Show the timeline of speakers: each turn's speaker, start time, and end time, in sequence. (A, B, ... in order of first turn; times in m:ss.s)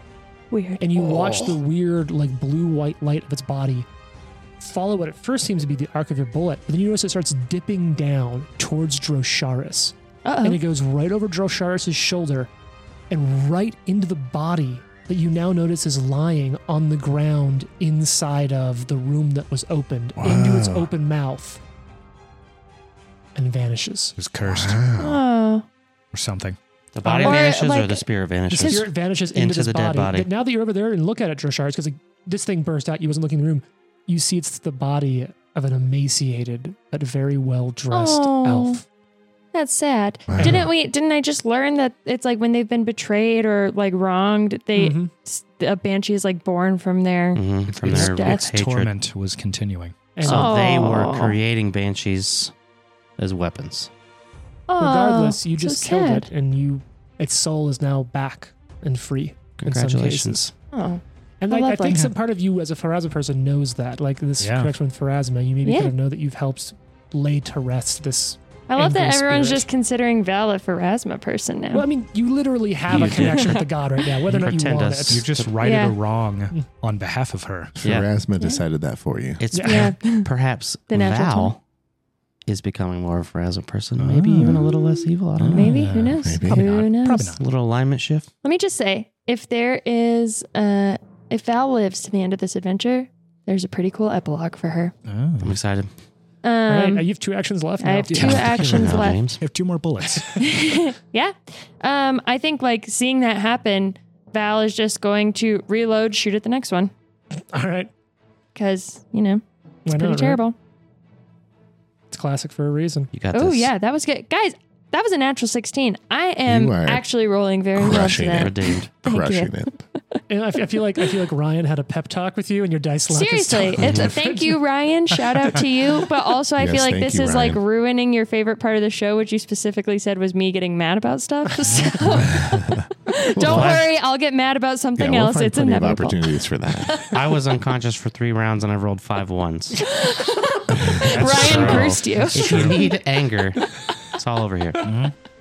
0:00.5-0:01.5 A
0:00.8-0:03.9 B
0:04.6-0:12.5 B
0:10.2-0:10.6 A
0:13.1-0:21.6 B
0:20.2-0:20.9 C
0:23.4-0:24.1 B
0:24.2-0:24.8 D
0:24.4-0:25.2 C
0:25.0-0:25.6 A
0:26.1-0:26.6 D
0:26.9-0:30.3 E
0:27.0-0:27.4 B
0:27.2-0:28.0 A
0:28.5-0:38.8 B
0:28.6-0:28.9 A
0:37.9-0:38.8 A
0:39.5-0:48.4 A
0:40.3-0:40.7 C
0:40.4-0:40.7 B
0:44.7-0:45.1 B
0:47.3-0:48.9 E
0:47.7-0:50.1 D
0:50.2-0:50.6 B
0:50.2-0:51.4 A
0:50.2-0:52.5 E
0:53.2-0:53.9 E
0:54.7-0:56.3 A
0:54.8-1:00.5 B
0:59.6-1:00.5 E
1:00.7-1:02.0 A
1:01.4-1:09.7 B
1:01.9-1:02.1 D
1:04.4-1:04.7 D
1:05.6-1:05.9 A
1:08.7-1:11.9 A
1:11.7-1:15.3 B
1:12.9-1:13.6 E
1:12.9-1:13.2 D
1:13.1-1:13.6 A
1:14.3-1:15.5 E
1:15.1-1:17.8 D
1:15.6-1:16.0 A
1:17.8-1:18.1 E
1:17.8-1:19.4 C
1:19.4-1:21.6 E
1:19.5-1:19.9 B
1:19.6-1:20.3 A
1:20.9-1:21.5 A
1:22.4-1:25.7 E
1:24.0-1:27.4 D
1:25.5-1:27.4 A
1:26.2-1:26.7 C
1:27.4-1:28.3 E
1:28.4-1:34.9 A
1:35.0-1:35.6 D
1:35.4-1:35.9 E
1:36.4-1:37.0 A
1:36.7-1:38.6 B
1:37.8-1:39.3 A
1:38.1-1:40.4 D
1:38.6-1:39.4 E
1:40.3-1:46.9 A
1:47.4-1:47.9 B
1:48.6-1:50.6 A
1:49.9-1:50.4 B
1:52.1-1:53.1 B
1:53.1-1:53.7 E
1:53.3-1:59.7 A
1:56.4-1:57.0 C
1:57.7-1:59.8 C
1:58.2-1:58.9 E
2:00.3-2:04.6 B
2:03.1-2:17.2 A
2:03.8-2:04.1 C
2:06.6-2:07.6 C
2:11.6-2:12.1 B
2:12.3-2:12.8 C
2:13.4-2:13.8 E
2:13.4-2:13.8 C
2:15.0-2:17.0 C
2:17.0-2:19.9 E
2:19.8-2:22.9 A
2:21.0-2:22.9 D
2:21.1-2:24.9 E
2:24.8-2:25.1 D